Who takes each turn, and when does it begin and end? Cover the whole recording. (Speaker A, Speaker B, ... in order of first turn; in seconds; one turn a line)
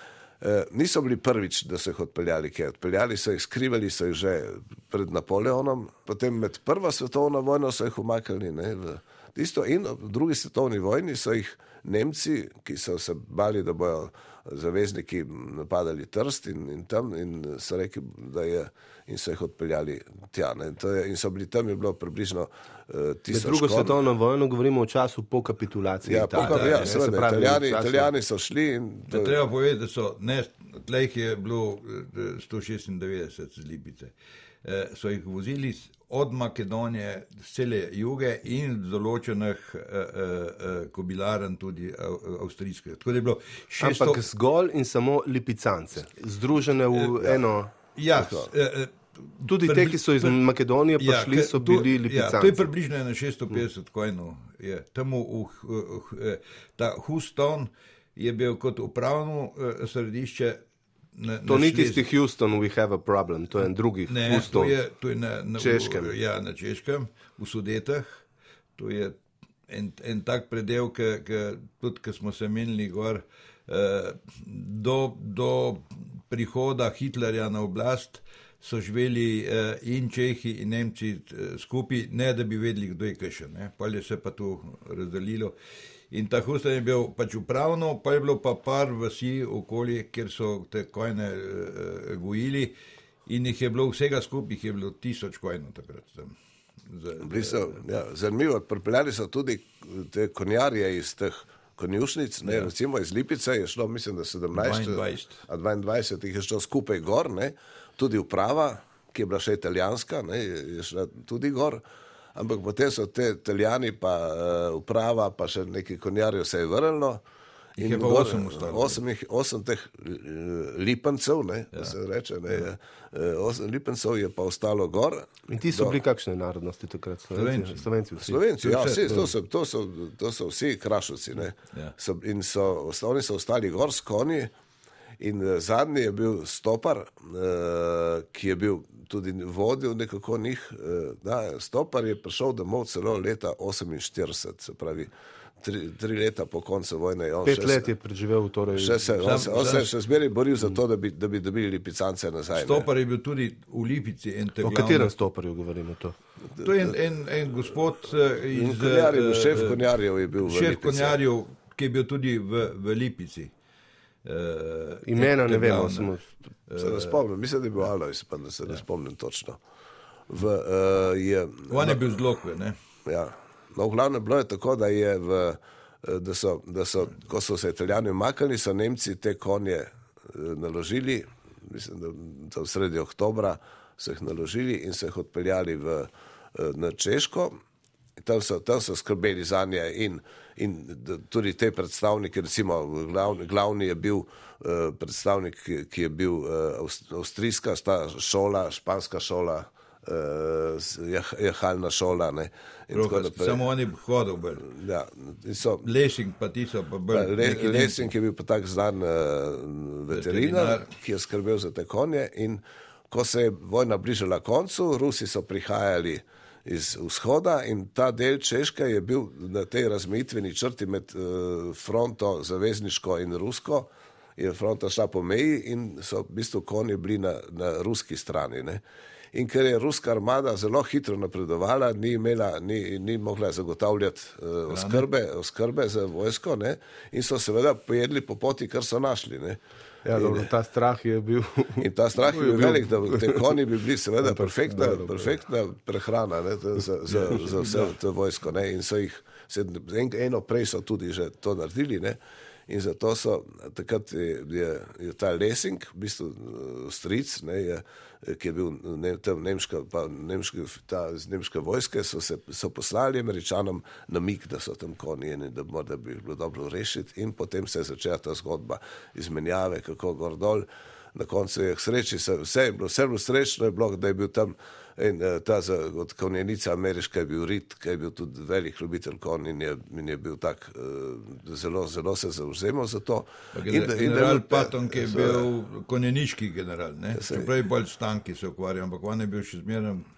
Speaker A: 0.4-24.0
Speaker B: 23.3-28.1
Speaker A: 26.0-29.4
Speaker C: 26.4-26.9
Speaker C: 29.1-34.1
Speaker C: 34.6-44.2
Speaker B: 43.8-47.7
Speaker C: 46.9-47.4
Speaker C: 48.0-50.4
Speaker A: 48.1-48.5
Speaker B: 49.5-52.6
Speaker C: 51.0-60.6
Speaker C: 61.1-62.1
Speaker B: 61.5-64.7
Speaker C: 64.1-68.2
Speaker B: 65.6-66.2
Speaker C: 68.8-69.2
Speaker C: 69.7-85.6
Speaker C: 86.1-92.8
Speaker C: 93.3-96.3
Speaker C: 96.9-97.8
Speaker A: 97.2-111.8
Speaker C: 102.4-102.7
Speaker C: 104.5-105.4
Speaker A: 112.3-117.2
Speaker C: 117.8-119.0
Speaker A: 117.8-126.0
Speaker B: 125.5-128.4
Speaker C: 127.3-127.9
Speaker A: 128.2-134.5
Speaker C: 128.6-129.3
Speaker A: 135.2-147.9
Speaker B: 147.4-149.5
Speaker A: 148.8-152.9
Speaker C: 149.2-149.9
Speaker C: 152.5-155.1
Speaker B: 154.6-156.2
Speaker A: 156.6-156.9
Speaker C: 156.6-159.9
Speaker A: 158.5-161.2
Speaker C: 160.4-163.5
Speaker C: 164.2-166.2
Speaker B: 165.1-166.2
Speaker C: 166.7-167.2
Speaker A: 166.8-169.6
Speaker A: 170.3-172.1
Speaker C: 171.7-172.8
Speaker A: 173.1-187.6
Speaker A: 188.2-203.6
Speaker C: 202.9-204.7
Speaker A: 204.6-205.9
Speaker C: 205.8-208.1
Speaker A: 207.1-240.5
Speaker C: 210.1-210.9
Speaker C: 234.7-235.1
Speaker B: 240.1-243.6
Speaker A: 241.8-285.5
Speaker B: 244.2-245.3
Speaker C: 247.1-247.9
Speaker C: 283.5-290.1
Speaker A: 287.1-287.5